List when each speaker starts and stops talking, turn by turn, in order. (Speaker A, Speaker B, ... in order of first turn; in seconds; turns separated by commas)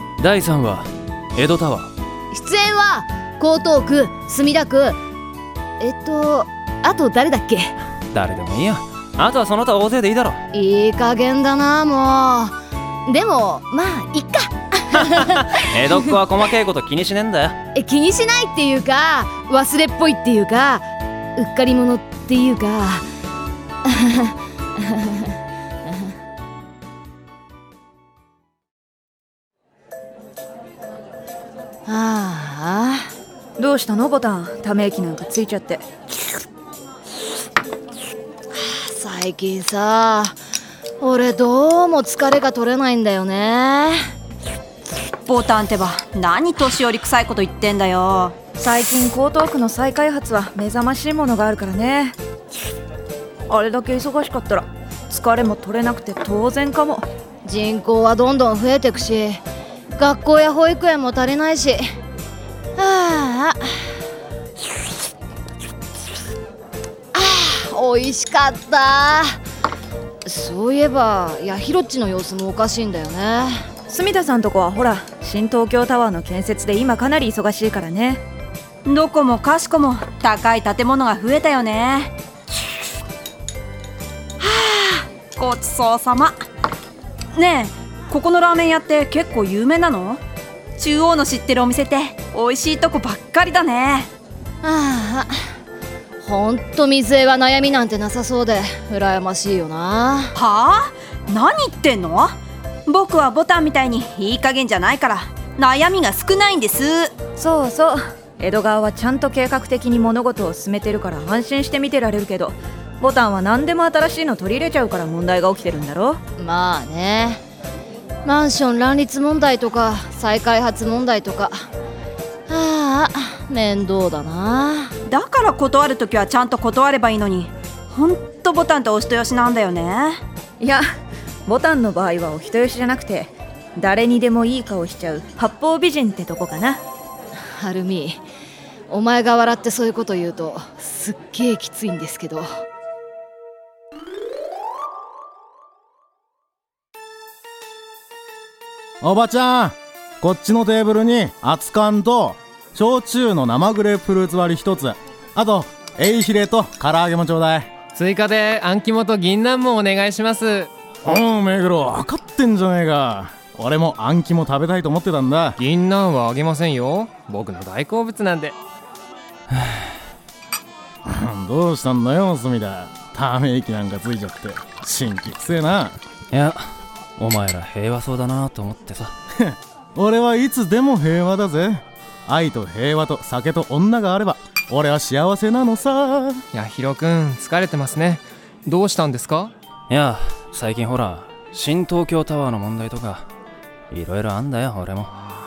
Speaker A: 0.2-1.9, Speaker B: 2.3-5.0, Speaker B: 5.8-7.7, Speaker A: 8.1-10.4, Speaker B: 10.5-12.6, Speaker B: 13.1-15.5, Speaker A: 15.0-17.6, Speaker B: 17.8-20.9, Speaker B: 21.4-23.0, Speaker B: 23.9-25.3, Speaker B: 31.9-33.1, Speaker C: 33.6-35.8, Speaker B: 38.5-40.4, Speaker B: 41.0-44.0, Speaker D: 45.3-48.4, Speaker C: 48.5-52.2, Speaker C: 53.5-57.1, Speaker B: 57.5-59.4, Speaker B: 60.0-61.8, Speaker B: 62.8-63.7, Speaker B: 67.1-69.4, Speaker B: 70.3-73.6, Speaker C: 73.9-78.2, Speaker D: 78.9-82.1, Speaker D: 84.4-86.4, Speaker D: 87.3-90.2, Speaker D: 90.8-94.1, Speaker B: 94.6-95.3, Speaker B: 96.2-100.3, Speaker D: 100.4-102.3, Speaker D: 102.9-107.1, Speaker C: 107.4-116.2, Speaker B: 116.4-117.4, Speaker B: 118.2-121.5, Speaker B: 122.5-124.9, Speaker D: 125.1-130.2, Speaker C: 131.5-136.8, Speaker B: 137.6-138.2, Speaker B: 138.9-142.5, Speaker E: 149.0-157.7, Speaker F: 157.9-160.7, Speaker E: 161.1-165.6, Speaker F: 165.6-168.6, Speaker E: 171.1-176.0, Speaker A: 176.3-176.6, Speaker A: 177.2-179.1, Speaker E: 179.4-186.4, Speaker F: 186.5-189.5, Speaker A: 189.9-193.2, Speaker A: 193.9-195.2